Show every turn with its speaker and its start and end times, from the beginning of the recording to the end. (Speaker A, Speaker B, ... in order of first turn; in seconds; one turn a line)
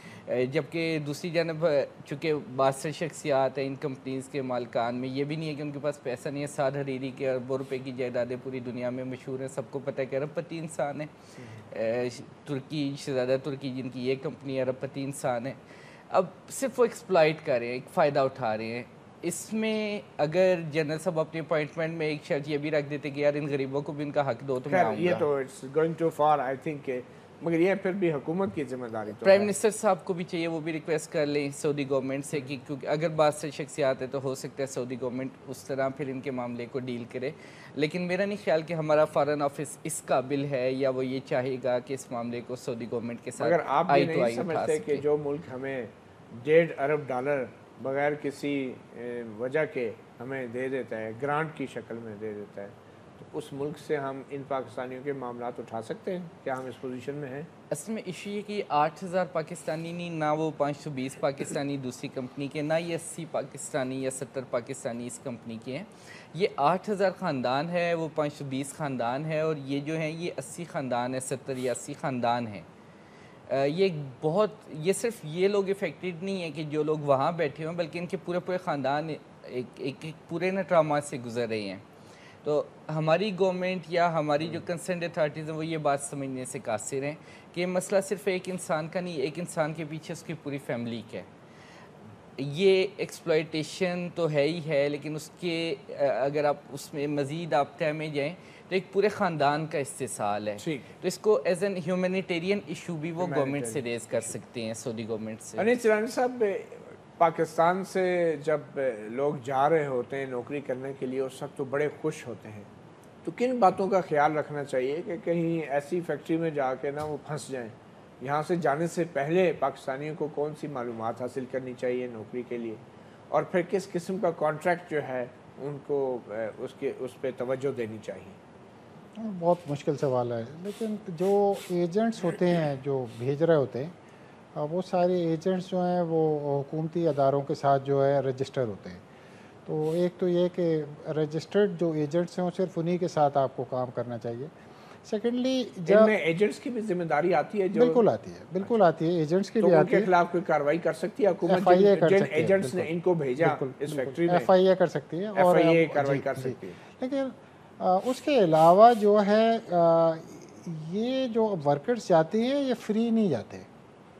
Speaker A: 0.2-11.1
Speaker A: 11.7-15.6
Speaker A: 16.1-25.3
Speaker B: 24.7-29.5
Speaker A: 29.2-45.0
Speaker B: 43.4-57.5
Speaker A: 57.7-72.7
Speaker A: 73.5-81.8
Speaker A: 82.4-91.3
Speaker A: 92.4-105.7
Speaker B: 100.6-100.9
Speaker B: 103.2-104.4
Speaker B: 105.6-112.7
Speaker B: 113.2-128.4
Speaker C: 129.2-133.9
Speaker C: 134.6-139.0
Speaker C: 139.7-144.5
Speaker C: 145.1-146.1
Speaker B: 145.9-148.1
Speaker C: 147.7-150.1
Speaker B: 149.6-154.5
Speaker C: 151.4-163.7
Speaker B: 155.3-156.8